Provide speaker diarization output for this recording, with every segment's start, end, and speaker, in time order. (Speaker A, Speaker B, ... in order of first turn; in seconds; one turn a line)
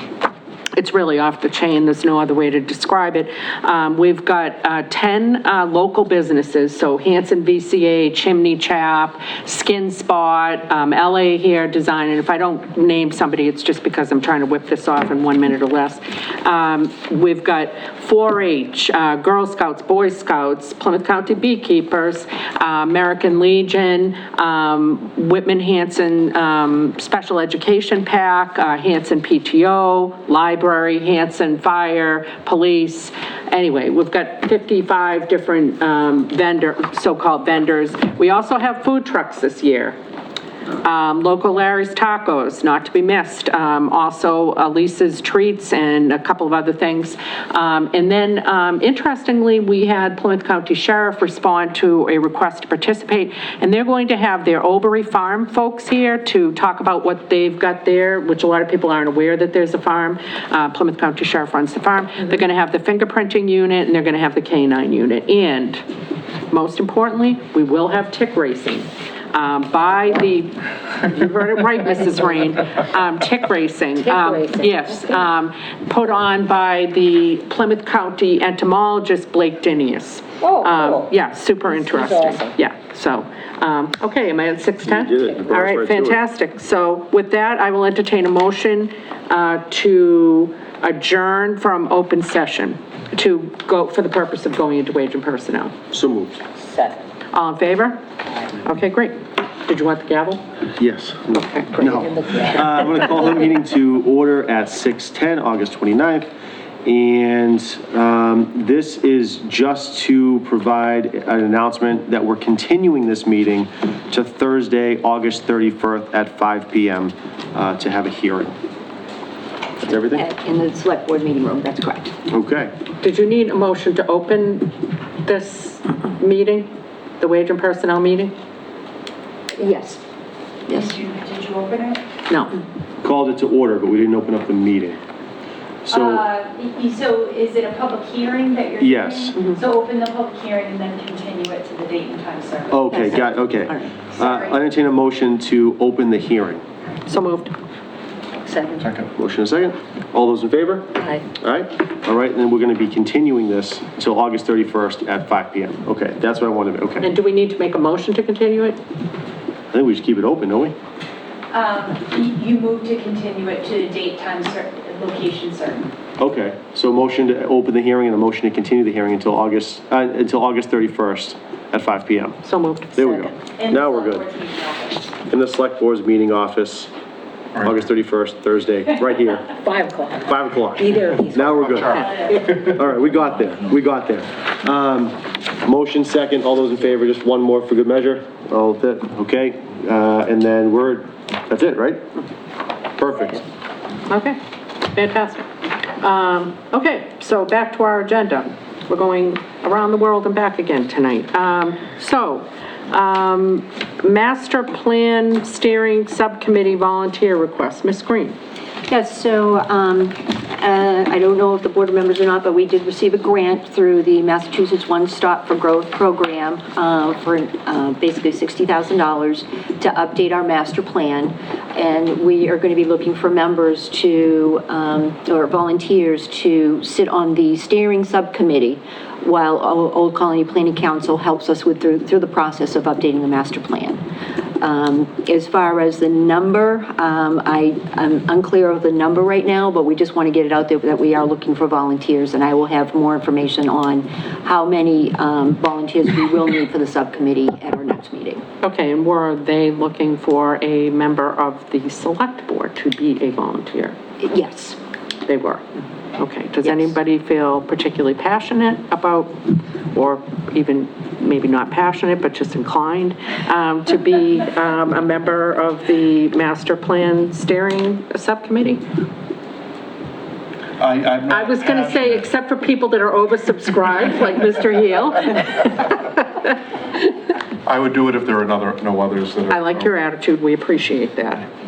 Speaker A: 0.8-40.0
Speaker A: 40.8-65.8
Speaker A: 66.5-95.7
Speaker B: 74.0-74.8
Speaker B: 80.4-81.1
Speaker B: 82.0-82.5
Speaker C: 84.9-86.2
Speaker C: 95.9-96.4
Speaker B: 96.6-97.0
Speaker A: 97.3-98.0
Speaker A: 98.5-100.4
Speaker C: 100.8-106.3
Speaker A: 101.3-101.8
Speaker B: 102.0-102.6
Speaker C: 106.8-118.5
Speaker D: 119.8-122.1
Speaker C: 119.8-120.2
Speaker C: 122.3-122.7
Speaker A: 123.0-128.3
Speaker D: 129.6-130.0
Speaker D: 130.7-131.0
Speaker E: 130.9-132.0
Speaker A: 132.3-132.6
Speaker C: 133.0-135.0
Speaker C: 135.8-136.3
Speaker E: 136.0-142.8
Speaker C: 138.8-139.4
Speaker C: 142.7-146.6
Speaker E: 144.2-144.5
Speaker A: 147.1-147.5
Speaker B: 148.4-148.8
Speaker F: 148.8-149.1
Speaker C: 149.1-157.1
Speaker B: 151.0-151.2
Speaker A: 157.0-158.8
Speaker C: 159.7-160.7
Speaker E: 161.5-165.9
Speaker C: 166.2-172.4
Speaker A: 172.4-173.3
Speaker C: 172.9-174.2
Speaker E: 173.6-175.1
Speaker C: 175.2-176.9
Speaker F: 177.6-177.8
Speaker C: 177.6-179.6
Speaker B: 179.6-182.5
Speaker C: 180.2-192.1
Speaker F: 181.6-182.8
Speaker C: 193.0-193.4
Speaker A: 194.1-195.5
Speaker A: 196.0-208.3
Speaker D: 208.9-234.0
Speaker D: 234.6-248.4
Speaker A: 248.6-253.9
Speaker D: 254.2-254.8
Speaker A: 255.3-255.6
Speaker A: 256.2-259.4
Speaker D: 256.6-256.9
Speaker A: 259.9-268.8
Speaker F: 270.8-272.2
Speaker A: 271.3-276.6
Speaker F: 277.6-279.9
Speaker A: 279.5-281.5